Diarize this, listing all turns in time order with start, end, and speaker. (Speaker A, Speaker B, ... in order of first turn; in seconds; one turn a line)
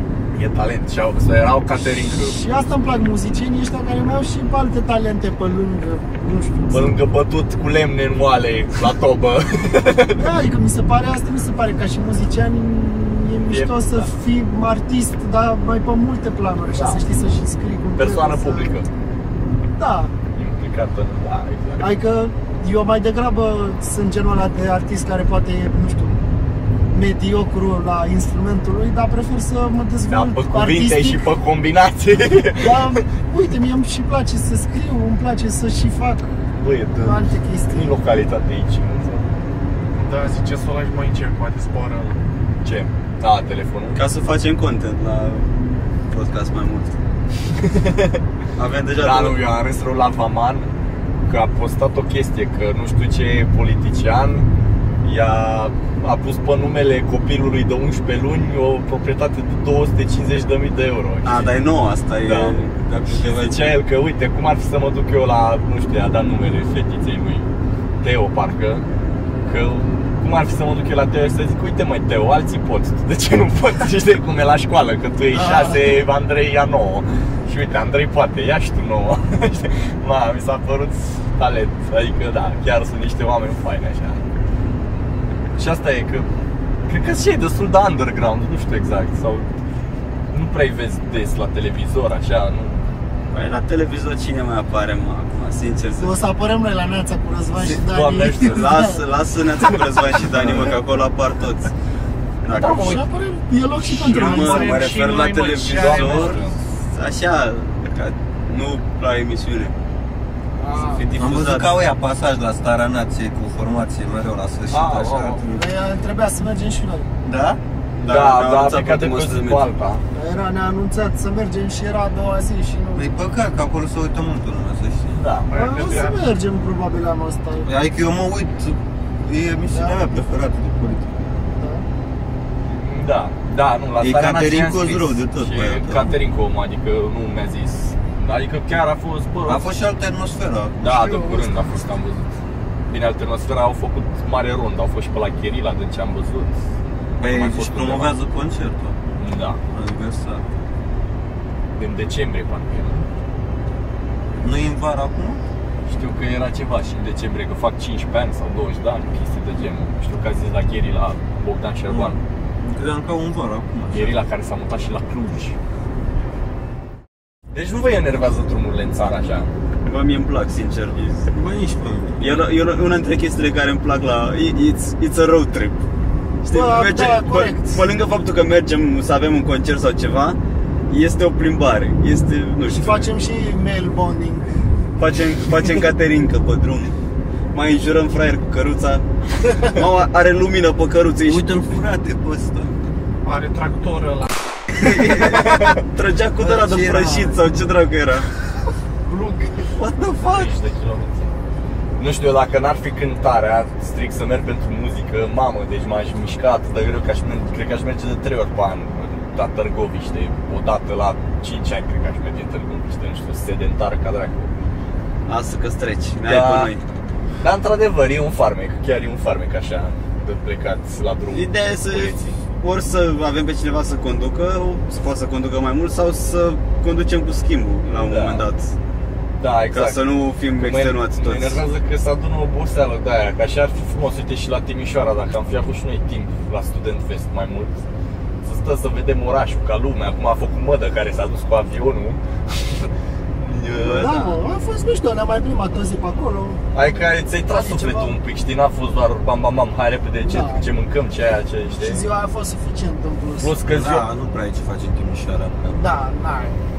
Speaker A: 0.3-2.4
Speaker B: 2.1-6.9
Speaker A: 6.7-10.3
Speaker B: 10.2-18.7
Speaker A: 13.4-14.1
Speaker A: 16.7-17.0
Speaker A: 17.9-18.9
Speaker B: 19.8-20.1
Speaker A: 20.3-22.0
Speaker B: 21.8-26.2
Speaker B: 26.9-31.2
Speaker A: 30.1-33.0
Speaker B: 32.6-36.3
Speaker A: 36.6-39.3
Speaker B: 37.0-37.9
Speaker C: 39.9-42.2
Speaker A: 42.6-44.0
Speaker D: 43.9-45.5
Speaker D: 46.1-46.9
Speaker A: 47.5-48.2
Speaker D: 48.6-49.4
Speaker A: 49.0-50.7
Speaker A: 51.2-54.5
Speaker A: 55.0-61.6
Speaker D: 61.2-63.7
Speaker A: 62.2-67.5
Speaker A: 68.0-68.8
Speaker A: 69.4-84.2
Speaker B: 75.3-75.9
Speaker A: 85.5-86.3
Speaker A: 86.8-89.5
Speaker A: 90.3-92.8
Speaker D: 93.3-96.2
Speaker B: 96.0-99.0
Speaker A: 97.6-98.8
Speaker D: 98.4-101.7
Speaker D: 102.4-103.0
Speaker A: 102.5-103.0
Speaker B: 102.7-105.0
Speaker C: 104.0-106.4
Speaker D: 104.1-106.4
Speaker A: 105.6-106.6
Speaker D: 106.9-109.7
Speaker B: 110.6-111.0
Speaker D: 110.7-111.8
Speaker E: 111.2-115.7
Speaker A: 114.7-115.4
Speaker B: 115.5-117.1
Speaker E: 117.2-117.6
Speaker D: 118.0-119.7
Speaker A: 118.0-120.0
Speaker B: 120.1-123.1
Speaker E: 122.9-125.2
Speaker A: 125.1-126.1
Speaker C: 125.5-126.2
Speaker B: 125.5-127.7
Speaker E: 127.6-131.2
Speaker B: 129.7-130.0
Speaker B: 131.5-131.8
Speaker A: 132.7-139.7
Speaker E: 134.0-136.2
Speaker E: 139.4-140.9
Speaker A: 140.8-142.3
Speaker B: 140.9-141.6
Speaker A: 142.9-146.6
Speaker E: 147.2-149.0
Speaker A: 147.2-148.2
Speaker A: 149.2-149.6
Speaker E: 149.7-150.4
Speaker A: 151.8-153.1
Speaker E: 154.4-155.4
Speaker A: 155.8-162.2
Speaker E: 161.9-164.2
Speaker A: 163.9-165.6
Speaker A: 167.5-169.5
Speaker D: 169.8-171.3
Speaker E: 171.3-172.4
Speaker D: 172.2-175.8
Speaker D: 176.4-183.1
Speaker B: 176.5-177.8
Speaker B: 182.6-184.5
Speaker D: 185.0-186.9
Speaker D: 187.5-189.0
Speaker D: 189.6-191.5
Speaker E: 191.2-192.7
Speaker C: 193.2-194.3
Speaker D: 194.7-198.3
Speaker E: 194.9-195.6
Speaker E: 196.4-197.4
Speaker E: 199.7-200.5
Speaker A: 200.2-201.3
Speaker A: 202.0-214.5
Speaker D: 215.2-216.8
Speaker A: 216.2-216.7
Speaker A: 217.4-222.4
Speaker D: 221.3-228.7
Speaker A: 227.9-228.5
Speaker A: 229.4-237.8
Speaker D: 229.7-231.6
Speaker A: 238.4-242.2
Speaker A: 243.4-244.4
Speaker B: 243.7-246.6
Speaker A: 246.7-252.0
Speaker B: 247.4-248.2
Speaker B: 250.2-250.7
Speaker B: 251.7-253.5
Speaker A: 253.4-254.1
Speaker E: 253.7-255.8
Speaker B: 255.7-256.6